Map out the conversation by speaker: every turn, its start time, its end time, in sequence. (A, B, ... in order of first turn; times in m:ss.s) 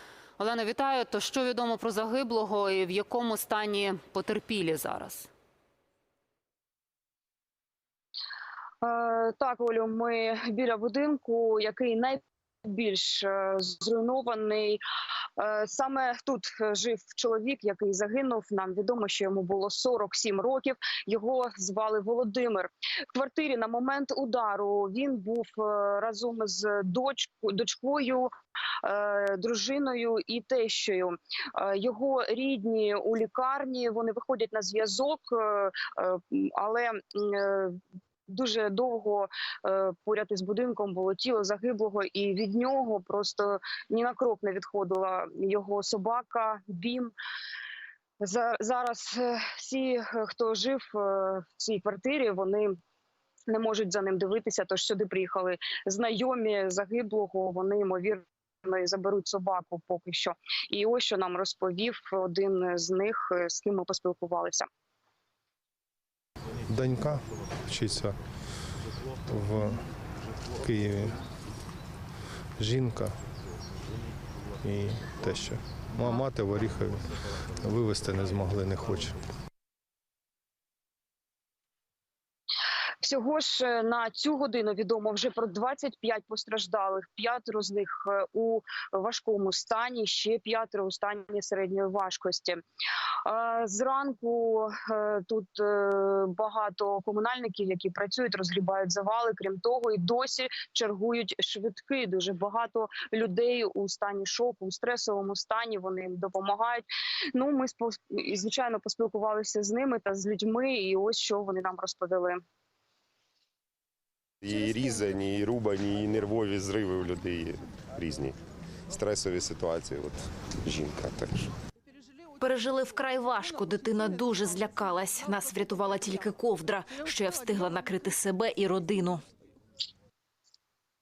0:00.4-0:05.3 A
0:08.8-0:14.8 B
0:15.4-0:28.3 B
0:28.8-0:47.1 B
0:48.2-0:52.8 B
0:53.5-1:04.7 B
1:06.7-1:08.2 C
1:09.3-1:09.8 C
1:10.6-1:11.2 C
1:12.6-1:13.2 C
1:14.6-1:19.2 C
1:23.0-1:32.6 B
1:33.2-1:52.4 B
1:54.4-1:58.4 D
1:58.9-2:01.5 D
2:02.4-2:09.2 E